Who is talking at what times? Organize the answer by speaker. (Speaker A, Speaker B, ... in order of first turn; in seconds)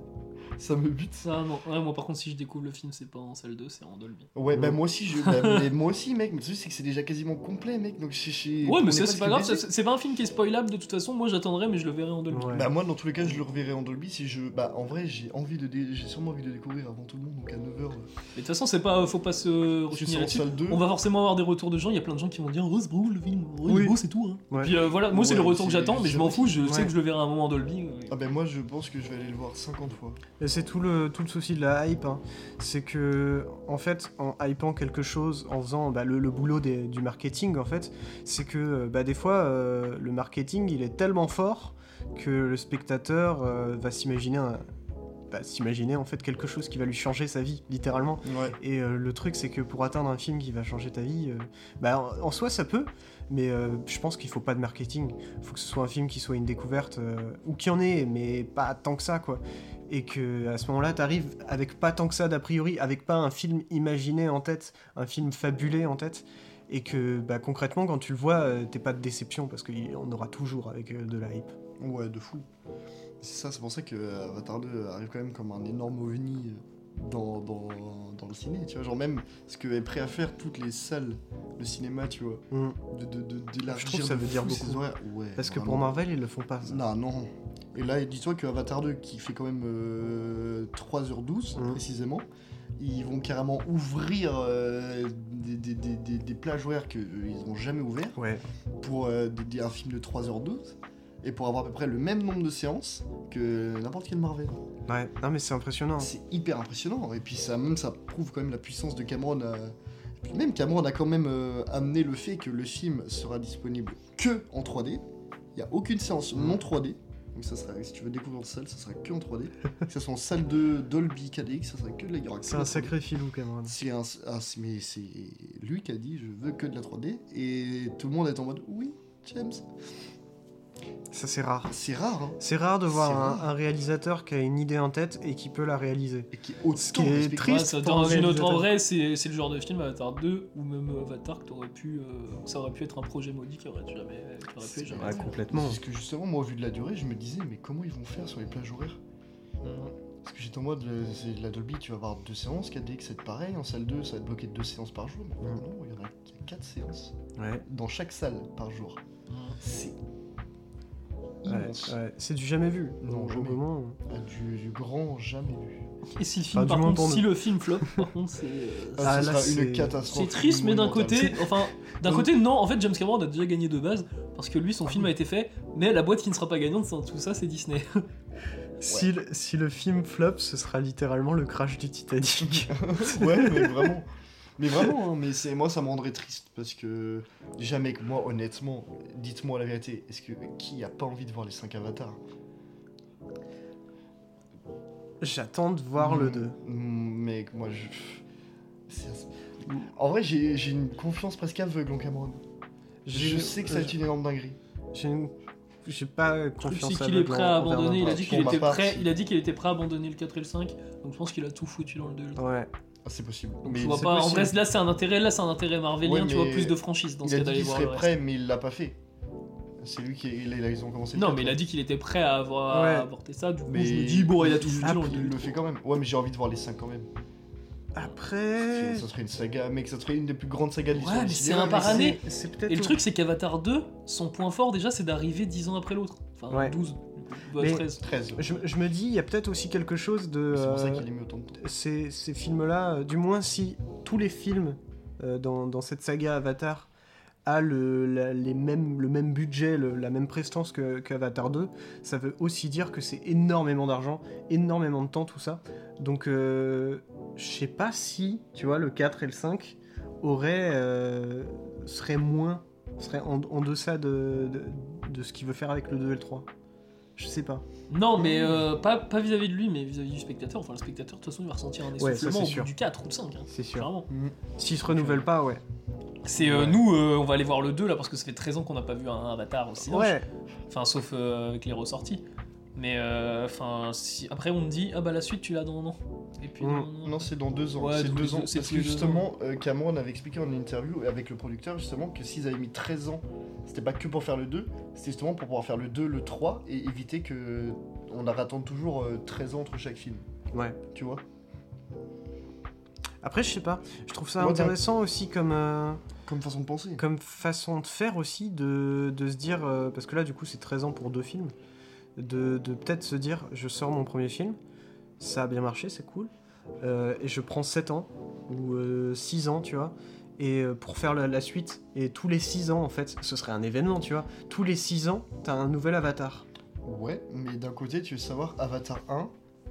Speaker A: 0.6-1.3, 4.3-9.6, 12.5-18.1, 19.9-20.8, 24.9-26.6, 28.1-30.2, 48.2-48.6, 71.8-72.5, 73.2-85.9, 86.6-92.3, 92.8-98.2, 98.8-104.6, 106.0-115.0, 115.5-123.0, 123.6-129.6, 131.7-133.5, 136.3-137.8, 144.6-149.0, 150.2-159.0, 159.6-159.9, 161.4-162.0, 163.0-165.8, 169.0-171.5, 182.5-192.2, 195.9-198.2, 198.9-202.4, 203.1-204.6, 208.0-209.1, 213.0-214.1, 216.0-219.0, 219.8-221.6, 223.7-227.1, 228.6-232.2, 238.0-238.6, 240.5-241.6, 274.1-274.4, 287.0-300.2, 300.9-301.2, 304.4-304.8, 306.2-307.0, 326.8-329.3
Speaker B: 1.2-4.3, 5.2-5.6, 8.6-12.7, 18.3-28.1, 137.4-145.3, 149.6-149.9, 159.3-159.6, 166.1-169.2, 170.1-178.0, 206.6-212.4, 213.7-218.1, 221.1-225.6, 230.9-238.0, 267.9-274.1, 276.2-282.2, 282.8-289.2
Speaker C: 12.3-12.7, 23.6-24.0, 26.6-26.9, 30.4-44.6, 45.3-71.5, 82.5-82.8, 83.7-84.8, 85.3-86.8, 91.5-91.8, 98.2-98.4, 104.9-106.1, 116.3-116.6, 122.4-123.7, 131.1-131.7, 132.4-138.7, 144.9-145.8, 157.4-157.6, 161.4-164.0, 166.5-167.3, 169.0-169.9, 178.8-183.9, 195.2-196.6, 203.1-204.0, 204.9-205.3, 205.8-208.6, 212.3-212.7, 213.7-214.5, 222.7-223.1, 227.9-229.1, 231.7-233.0, 236.5-236.8, 237.6-237.8, 238.4-246.9, 247.4-266.5, 267.2-267.6, 272.0-272.7, 273.5-273.9, 274.6-275.6, 276.4-276.8, 279.9-280.2, 286.6-286.9, 300.5-300.8, 303.2-306.0, 307.0-311.5, 312.2-314.6, 315.2-326.4